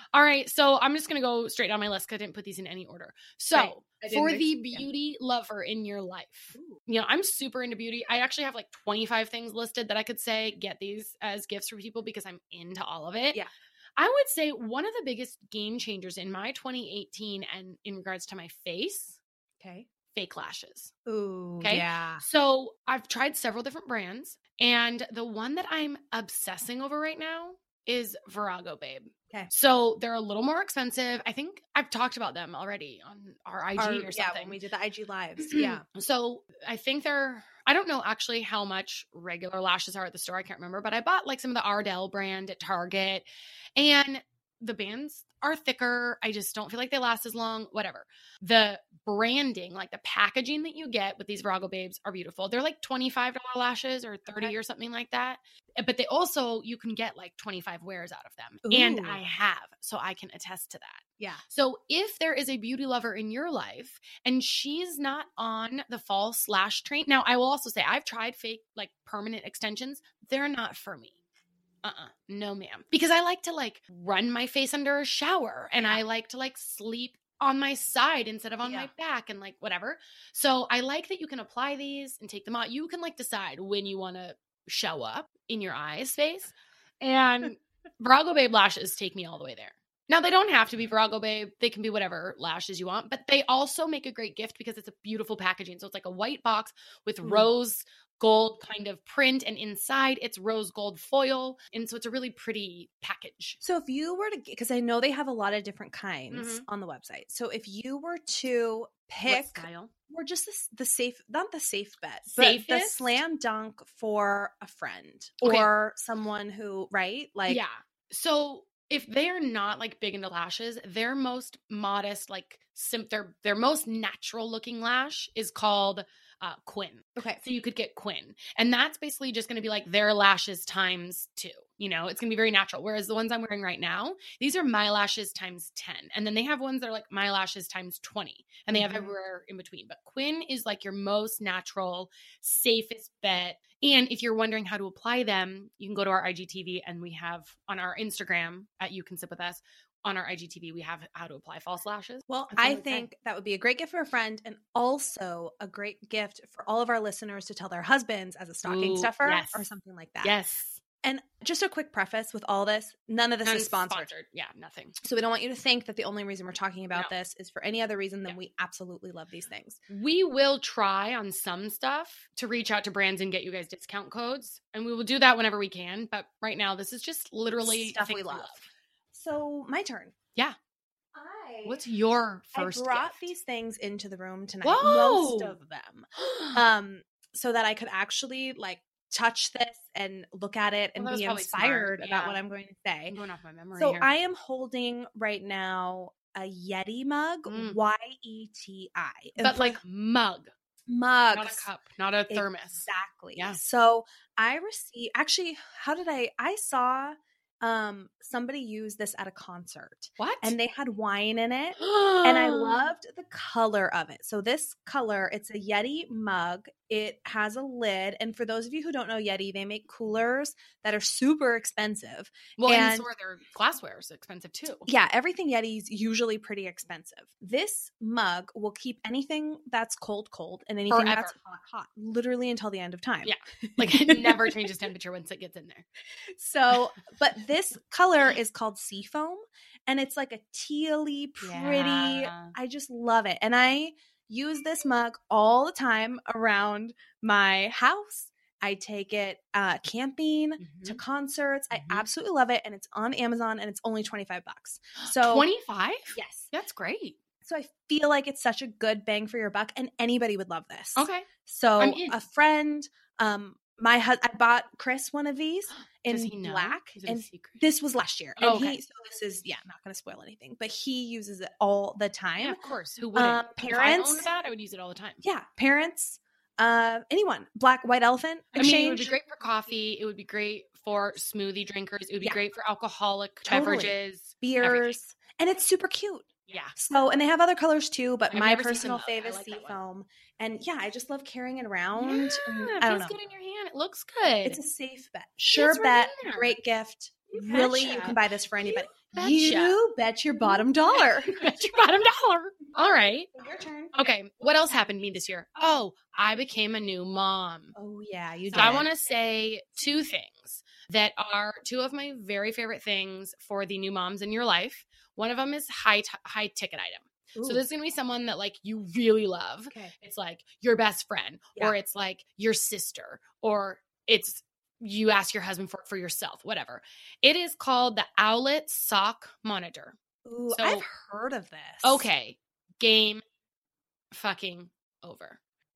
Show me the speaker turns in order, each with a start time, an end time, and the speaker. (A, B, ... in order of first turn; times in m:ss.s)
0:00.1-0:13.4 A
0:03.5-0:04.9 B
0:06.5-0:06.8 B
0:14.0-0:19.2 A
0:19.6-0:19.9 B
0:20.1-0:20.9 A
0:21.1-0:22.2 B
0:21.6-0:34.6 A
0:33.8-0:35.8 B
0:35.4-0:43.2 A
0:43.8-1:11.2 A
0:58.6-0:59.2 B
1:11.8-1:43.6 A
1:18.6-1:18.9 B
1:37.2-1:37.5 B
1:43.6-1:57.6 B
1:46.3-1:46.7 A
1:49.3-1:49.9 A
1:52.3-1:53.2 A
1:55.4-1:55.7 A
1:57.5-2:33.1 A
2:18.7-2:19.2 B
2:32.3-2:40.3 B
2:38.6-2:39.7 A
2:40.2-2:40.8 A
2:41.0-2:44.1 B
2:43.4-2:45.0 A
2:45.0-2:49.8 B
2:49.9-2:58.6 A
2:57.6-3:00.1 B
3:01.1-3:01.8 B
3:01.6-3:03.3 A
3:02.5-3:13.2 B
3:04.6-3:05.6 A
3:06.2-3:06.6 A
3:11.0-3:12.4 A
3:13.1-3:14.1 A
3:13.8-3:19.8 B
3:17.5-3:17.8 A
3:19.4-3:20.5 A
3:20.9-3:21.7 B
3:21.3-3:23.6 A
3:22.3-3:43.1 B
3:30.2-3:30.6 A
3:31.8-3:32.9 A
3:42.6-3:44.9 A
3:44.9-3:54.7 B
3:50.9-3:51.3 A
3:53.2-3:55.9 A
3:56.3-4:15.5 B
4:01.4-4:02.5 A
4:10.6-4:11.0 A
4:11.7-4:12.1 A
4:15.0-4:17.2 A
4:16.1-4:16.5 B
4:17.4-4:32.6 B
4:21.0-4:21.3 A
4:21.8-4:22.2 A
4:25.7-4:27.6 A
4:28.4-4:28.8 A
4:32.4-4:35.2 A
4:33.2-4:34.2 B
4:35.2-4:39.1 B
4:38.6-4:45.0 A
4:42.2-4:42.4 B
4:43.5-4:53.2 B
4:46.5-4:46.8 A
4:48.3-4:49.8 A
4:52.0-4:54.6 A
4:54.4-5:01.3 B
4:55.5-4:56.6 A
4:57.3-4:59.8 A
5:00.9-5:03.4 A
5:03.3-5:04.0 B
5:03.9-5:07.7 A
5:07.8-5:08.9 B
5:08.5-5:30.0 A
5:17.4-5:17.6 B
5:30.2-5:32.1 B
5:30.5-5:30.8 A
5:31.8-5:33.2 A
5:34.1-5:35.4 A